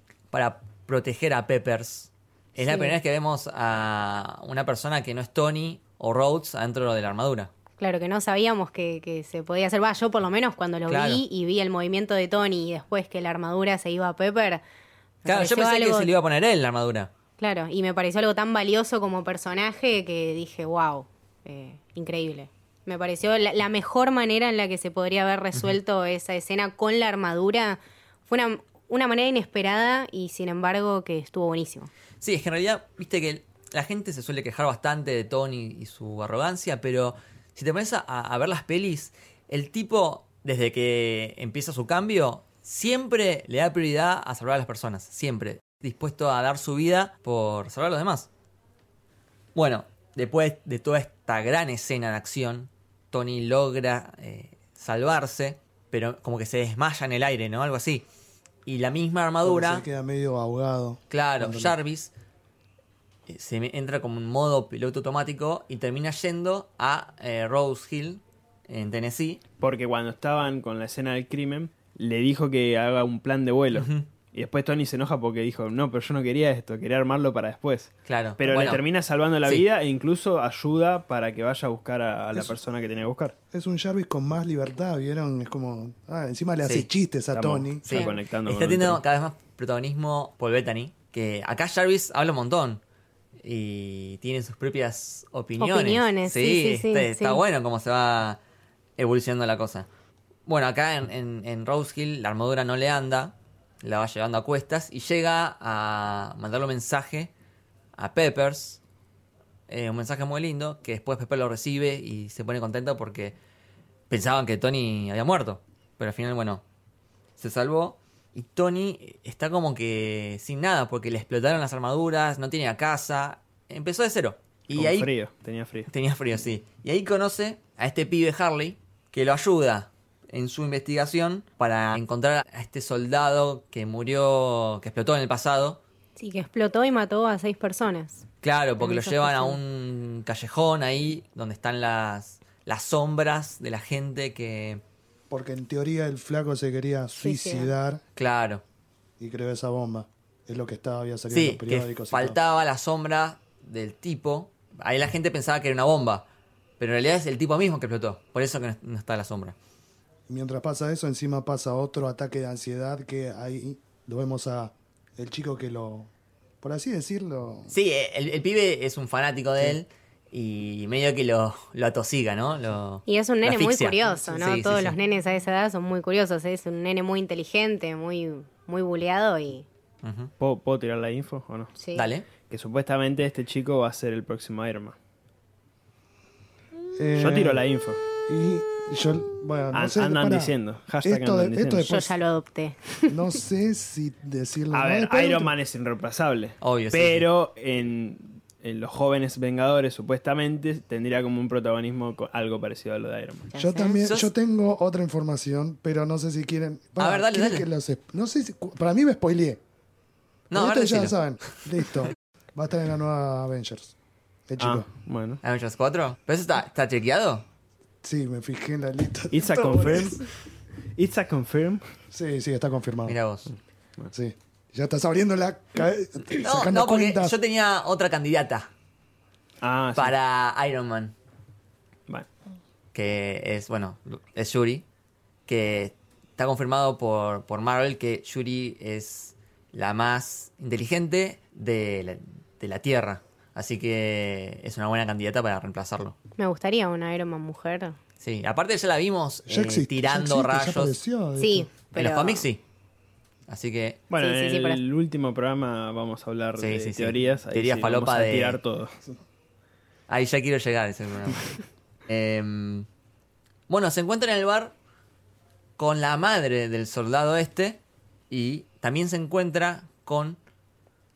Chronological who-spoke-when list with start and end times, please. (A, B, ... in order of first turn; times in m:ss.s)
0:00.3-0:07.5 A
0:02.6-0:03.0 B
0:07.8-0:14.6 B
0:10.9-0:11.2 A
0:15.2-0:16.1 B
0:15.3-0:17.1 A
0:17.4-0:31.9 B
0:32.2-0:48.3 A
0:49.6-0:58.1 A
0:58.7-0:59.8 A
0:59.4-1:01.8 C
1:01.1-1:02.1 A
1:03.3-1:09.4 A
1:09.6-1:23.4 D
1:13.7-1:14.1 A
1:18.1-1:18.8 A
1:23.5-1:28.0 C
1:27.3-1:29.0 D
1:27.8-1:32.8 A
1:33.4-1:38.4 A
1:35.6-1:37.4 B
1:39.0-1:39.9 A
1:40.5-1:47.3 A
1:48.0-1:48.8 A
1:49.7-1:53.4 A
1:54.1-1:56.6 A
1:57.4-2:05.1 A
2:04.8-2:05.9 D
2:05.9-2:15.8 A
2:16.2-2:18.2 B
2:18.4-2:24.8 A
2:18.8-2:19.6 B
2:25.3-2:28.0 C
2:27.2-2:27.7 B
2:28.2-2:28.6 A
2:29.2-2:32.4 C
2:31.3-2:36.2 A
2:36.8-2:39.6 A
2:40.3-2:46.1 C
2:46.6-2:47.7 C
2:47.7-2:55.0 A
2:53.1-2:59.7 B
2:54.1-2:54.6 C
3:00.0-3:00.3 A
3:00.4-3:01.7 D
3:01.8-3:02.1 B
3:02.0-3:02.3 A
3:02.5-3:05.0 D
3:06.9-3:07.6 C
3:07.2-3:08.0 D
3:08.2-3:12.2 C
3:09.7-3:11.9 D
3:11.9-3:13.2 B
3:13.1-3:15.5 C
3:14.7-3:23.5 D
3:16.6-3:17.3 A
3:23.5-3:24.0 B
3:23.6-3:29.6 C
3:24.0-3:24.3 A
3:27.0-3:27.7 A
3:30.5-3:31.4 A
3:30.5-3:33.9 C
3:34.5-3:34.9 C
3:34.6-3:35.4 D
3:35.4-3:37.4 A
3:38.0-3:40.2 C
3:39.3-3:40.2 D
3:41.0-3:41.9 D
3:42.1-3:43.2 C
3:43.1-3:43.5 A
3:44.1-3:47.4 C
3:46.4-3:48.7 A
3:49.6-3:50.1 D
3:50.0-3:51.1 A
3:52.9-3:54.8 A
3:55.5-4:06.2 A
4:06.4-4:08.0 B
4:08.2-4:11.0 A
4:09.5-4:11.7 C
4:11.4-4:12.5 B
4:11.9-4:12.6 A
4:13.5-4:14.0 A
4:14.1-4:19.0 D
4:14.2-4:14.8 B
4:16.6-4:18.6 A
4:20.1-4:22.9 A
4:23.7-4:24.7 A
4:25.8-4:27.8 A
4:28.3-4:30.4 A